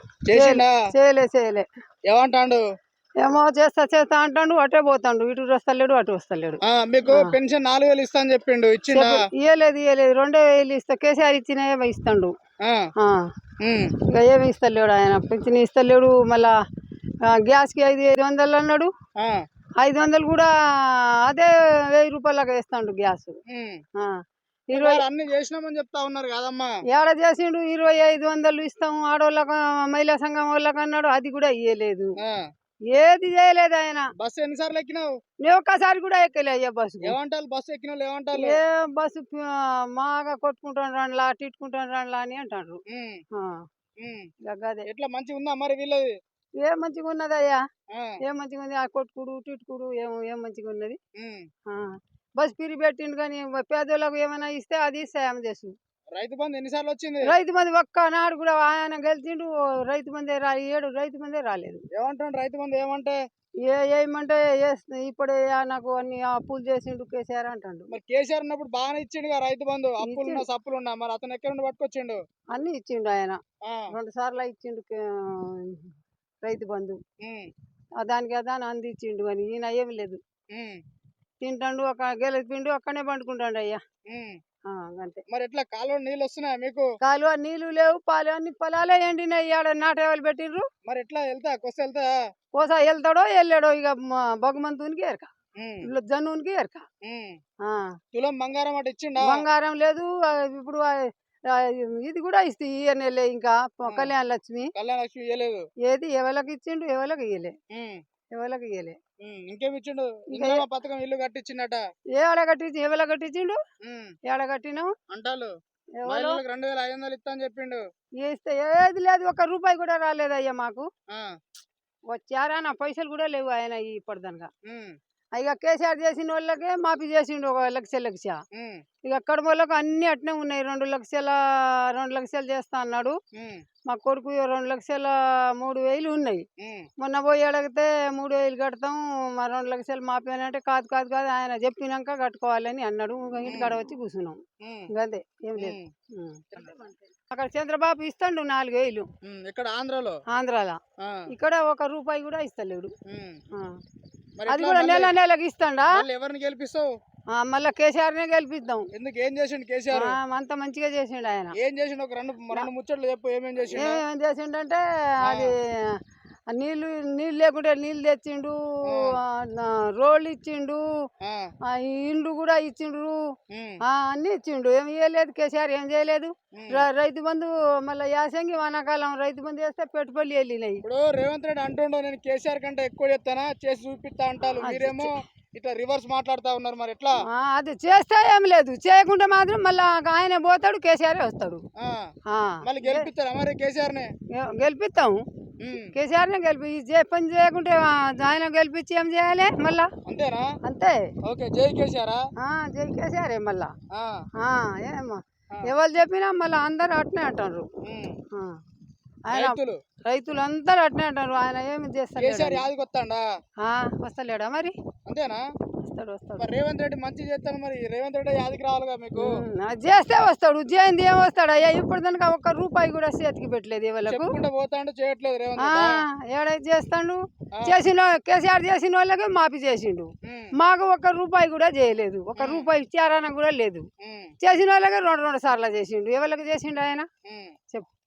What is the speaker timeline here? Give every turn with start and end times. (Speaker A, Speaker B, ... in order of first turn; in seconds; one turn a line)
Speaker A: 0.3-0.7
Speaker B: 0.3-1.7
Speaker A: 2.1-2.6
Speaker B: 3.2-7.4
Speaker A: 6.6-9.3
Speaker B: 8.9-12.3
Speaker A: 12.6-12.9
Speaker B: 13.0-13.3
Speaker A: 13.6-13.9
Speaker B: 14.1-16.5
Speaker B: 17.2-18.9
Speaker B: 19.8-23.4
Speaker A: 23.5-23.8
Speaker B: 23.9-25.0
Speaker A: 24.7-26.8
Speaker B: 26.9-32.1
Speaker B: 32.9-34.1
Speaker A: 34.2-35.1
Speaker B: 35.4-37.1
Speaker A: 37.0-38.6
Speaker B: 38.3-42.8
Speaker A: 42.9-43.2
Speaker B: 43.3-43.6
Speaker A: 44.0-44.3
Speaker B: 44.4-44.9
Speaker A: 44.8-46.1
Speaker B: 46.6-47.6
Speaker A: 47.9-48.2
Speaker B: 48.2-51.0
Speaker A: 51.2-51.5
Speaker B: 51.7-55.7
Speaker A: 56.1-57.3
Speaker B: 57.2-61.8
Speaker A: 61.9-63.2
Speaker B: 63.6-67.9
Speaker A: 67.9-72.2
Speaker B: 70.0-70.4
Speaker B: 72.5-77.0
Speaker A: 73.6-73.9
Speaker A: 77.2-77.5
Speaker B: 78.0-80.2
Speaker A: 80.5-80.8
Speaker B: 81.4-83.8
Speaker A: 84.1-84.4
Speaker B: 84.7-85.2
Speaker A: 85.3-86.9
Speaker B: 87.0-90.7
Speaker A: 90.8-92.1
Speaker B: 92.5-95.3
Speaker A: 95.6-95.9
Speaker B: 95.8-96.9
Speaker A: 97.0-97.4
Speaker B: 97.6-98.0
Speaker A: 98.1-99.4
Speaker B: 99.2-104.7
Speaker A: 103.8-104.1
Speaker A: 104.7-105.7
Speaker B: 105.8-107.5
Speaker A: 107.7-108.0
Speaker B: 108.3-109.0
Speaker A: 109.2-111.8
Speaker B: 110.3-110.6
Speaker B: 112.1-113.6
Speaker A: 113.8-114.1
Speaker B: 114.2-114.9
Speaker A: 115.1-115.5
Speaker B: 116.0-116.4
Speaker A: 116.0-117.8
Speaker B: 118.2-120.9
Speaker A: 121.1-121.3
Speaker B: 122.1-124.5
Speaker A: 124.7-125.0
Speaker B: 125.3-128.4
Speaker A: 128.5-128.8
Speaker B: 129.0-133.2
Speaker A: 133.3-133.6
Speaker B: 133.9-136.4
Speaker A: 136.6-136.9
Speaker B: 137.0-149.1
Speaker A: 143.5-143.8
Speaker A: 144.6-144.9
Speaker A: 145.6-145.9
Speaker A: 146.5-146.8
Speaker A: 149.2-150.2
Speaker B: 150.3-150.8
Speaker A: 151.0-151.3
Speaker B: 151.3-152.9
Speaker A: 153.1-153.4
Speaker B: 153.5-153.8
Speaker A: 154.4-155.1
Speaker B: 154.5-156.0
Speaker A: 155.9-156.9
Speaker B: 157.3-158.9
Speaker A: 158.9-160.2
Speaker B: 159.9-161.6
Speaker A: 161.5-164.0
Speaker B: 163.7-170.8
Speaker A: 165.2-165.5
Speaker A: 168.8-169.2
Speaker A: 171.2-171.5
Speaker B: 171.7-173.2
Speaker A: 173.5-173.8
Speaker B: 173.8-180.8
Speaker A: 176.5-176.9
Speaker A: 180.8-187.2
Speaker B: 184.4-185.1
Speaker B: 187.3-191.6
Speaker A: 191.8-192.1
Speaker B: 192.3-193.1
Speaker A: 192.6-194.1
Speaker B: 194.3-195.2
Speaker A: 195.6-195.9
Speaker B: 195.9-199.9
Speaker A: 200.1-200.5
Speaker B: 200.6-201.1
Speaker A: 201.2-202.2
Speaker B: 202.4-203.7
Speaker A: 203.9-204.2
Speaker B: 204.4-207.7
Speaker A: 207.8-208.2
Speaker B: 208.3-208.6
Speaker B: 209.3-212.7
Speaker A: 209.3-209.8
Speaker A: 212.2-213.2
Speaker B: 213.6-214.8
Speaker A: 215.1-215.4
Speaker B: 215.8-216.5
Speaker A: 216.4-219.4
Speaker B: 219.2-224.3
Speaker A: 224.1-226.0
Speaker B: 225.6-233.9
Speaker A: 227.5-227.8
Speaker A: 230.2-230.5
Speaker A: 232.4-232.7
Speaker A: 234.0-234.3
Speaker B: 234.4-237.1
Speaker A: 237.2-237.6